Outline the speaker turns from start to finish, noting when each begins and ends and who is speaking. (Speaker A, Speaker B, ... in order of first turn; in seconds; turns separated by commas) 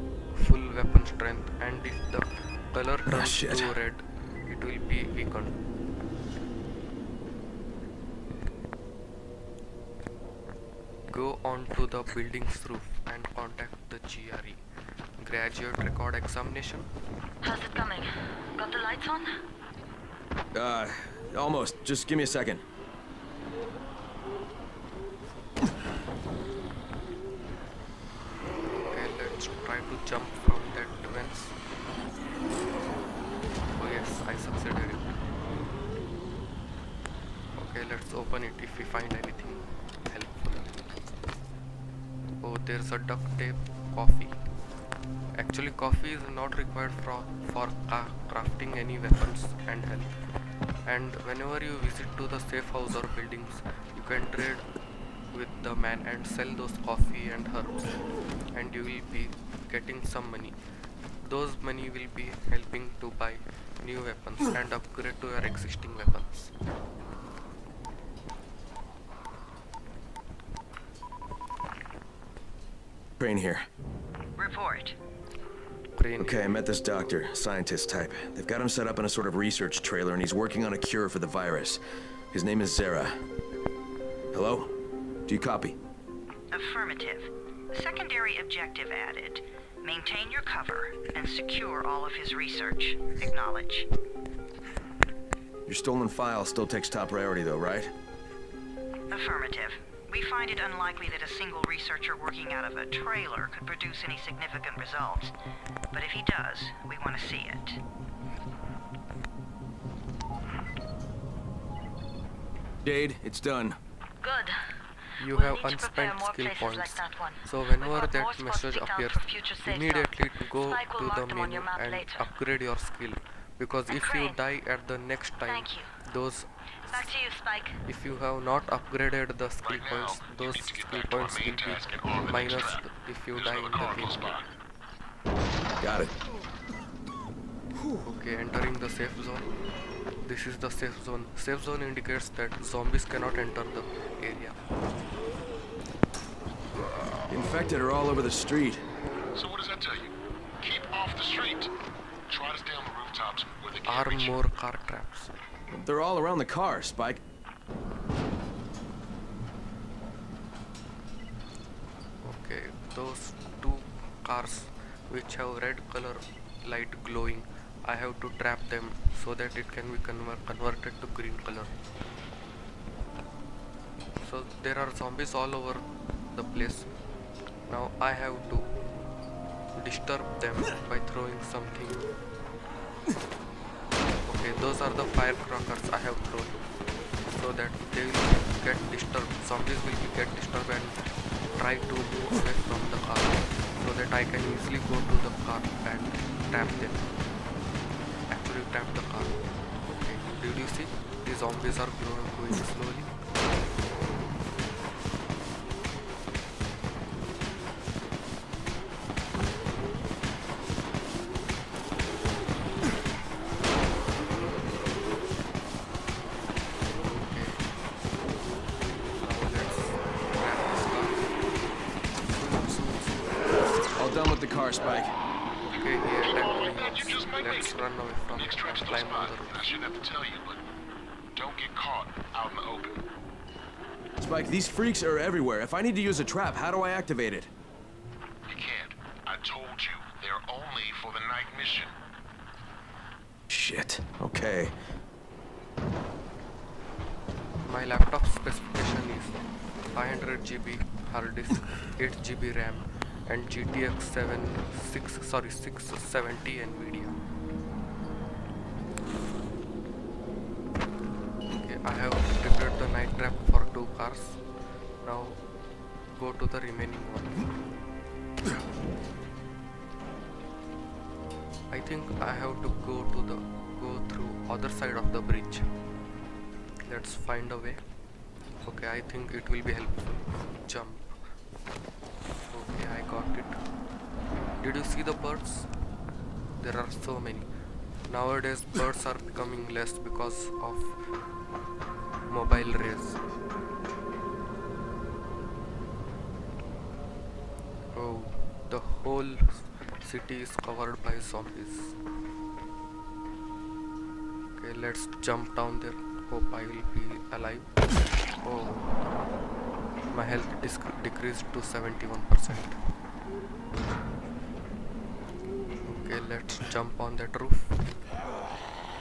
Speaker A: 0.3-5.6, Speaker B: 3.0-3.8, Speaker A: 11.1-14.6, Speaker A: 15.2-16.9, Speaker C: 17.4-19.3, Speaker B: 20.5-22.6, Speaker A: 28.8-31.5, Speaker A: 33.7-35.1, Speaker A: 37.6-40.8, Speaker A: 42.4-44.3, Speaker A: 45.4-50.1, Speaker A: 50.9-54.6, Speaker A: 55.3-58.0, Speaker A: 58.5-60.5, Speaker A: 61.2-66.5, Speaker B: 73.2-73.7, Speaker D: 74.4-75.0, Speaker A: 75.9-76.6, Speaker B: 76.2-81.8, Speaker B: 82.3-83.2, Speaker B: 84.3-84.7, Speaker B: 85.3-85.8, Speaker D: 86.5-93.9, Speaker B: 95.7-97.9, Speaker D: 99.1-105.3, Speaker D: 105.9-107.8, Speaker B: 112.8-113.8, Speaker C: 114.2-114.6, Speaker A: 115.2-127.1, Speaker C: 115.2-122.3, Speaker C: 123.9-124.4, Speaker C: 125.4-125.9, Speaker C: 126.9-127.8, Speaker A: 127.8-134.4, Speaker E: 129.6-134.5, Speaker B: 135.8-136.1, Speaker A: 138.0-139.5, Speaker A: 140.2-144.5, Speaker B: 147.3-148.8, Speaker E: 149.3-151.7, Speaker E: 152.3-154.3, Speaker A: 153.8-155.3, Speaker B: 155.7-157.2, Speaker A: 162.2-171.7, Speaker A: 174.2-176.9, Speaker A: 177.7-178.6, Speaker A: 179.8-182.1, Speaker A: 184.2-186.6, Speaker A: 187.2-190.9, Speaker A: 191.6-197.0, Speaker A: 198.3-199.3, Speaker A: 199.8-203.1, Speaker A: 216.9-217.6, Speaker A: 219.0-221.3, Speaker A: 222.2-223.9, Speaker B: 223.9-225.2, Speaker A: 225.7-229.7, Speaker E: 226.2-230.6, Speaker E: 231.3-233.0, Speaker B: 234.2-237.5, Speaker E: 238.5-241.9, Speaker B: 243.5-244.7, Speaker A: 247.6-249.4, Speaker A: 249.9-257.2, Speaker A: 261.5-264.4, Speaker A: 265.0-265.4, Speaker A: 266.1-267.5, Speaker A: 271.7-275.7, Speaker A: 276.9-277.8, Speaker A: 278.6-281.1, Speaker A: 282.5-283.6, Speaker A: 284.6-285.7, Speaker A: 286.6-287.5, Speaker A: 288.1-290.9, Speaker A: 292.3-293.2, Speaker A: 297.9-301.9, Speaker A: 304.6-307.7, Speaker A: 308.4-309.0, Speaker A: 310.1-312.8, Speaker A: 315.9-317.8